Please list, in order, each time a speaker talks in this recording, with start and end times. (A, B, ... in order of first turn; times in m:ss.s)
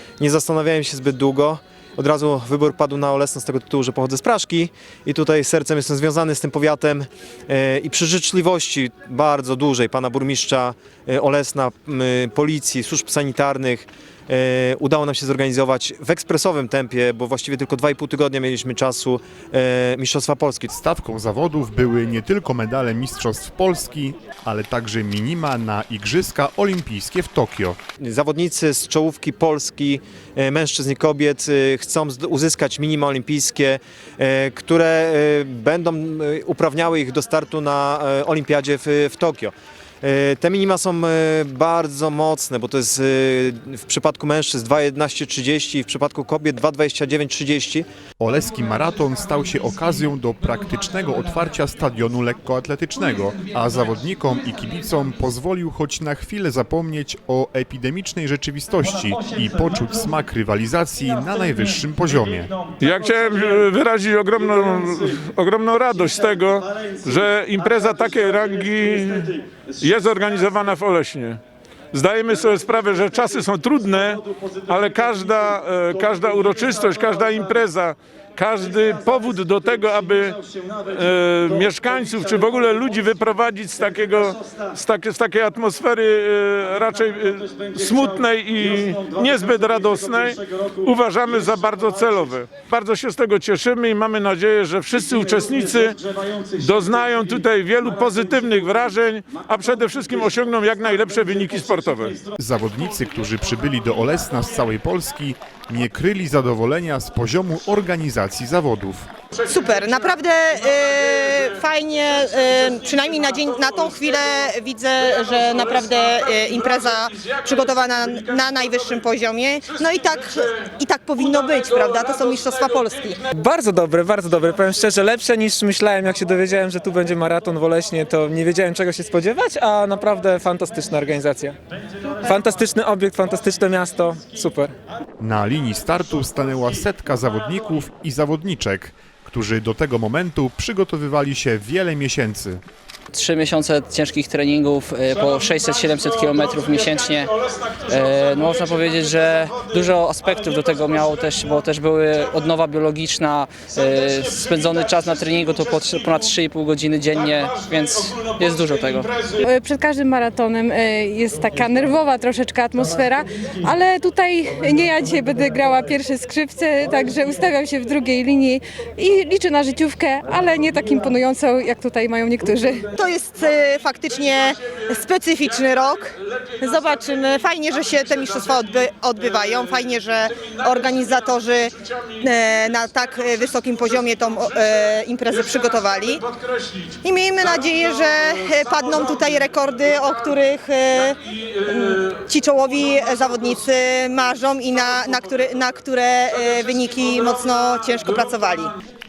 0:00.2-0:20.7 A
0:20.7-0:27.8 B
0:28.0-0:47.8 A
0:48.2-1:02.5 B
1:02.8-1:11.4 C
1:11.9-1:42.2 C
1:42.4-1:49.1 B
1:49.4-2:03.3 D
1:55.2-1:58.8 C
1:59.8-2:00.6 C
2:01.6-2:02.4 C
2:02.9-2:03.2 C
2:03.3-2:14.7 E
2:15.2-2:22.6 B
2:23.1-2:27.3 F
2:26.3-2:29.3 C
2:27.8-2:39.1 F
2:34.0-2:34.4 C
2:35.2-2:35.6 C
2:37.5-2:38.4 C
2:39.4-2:52.9 G
2:52.9-3:06.2 D
2:56.3-2:57.1 C
2:57.9-2:58.7 C
2:59.5-2:59.8 C
3:00.4-3:10.0 C
3:07.0-3:18.8 D
3:11.0-3:12.1 C
3:12.8-3:13.5 C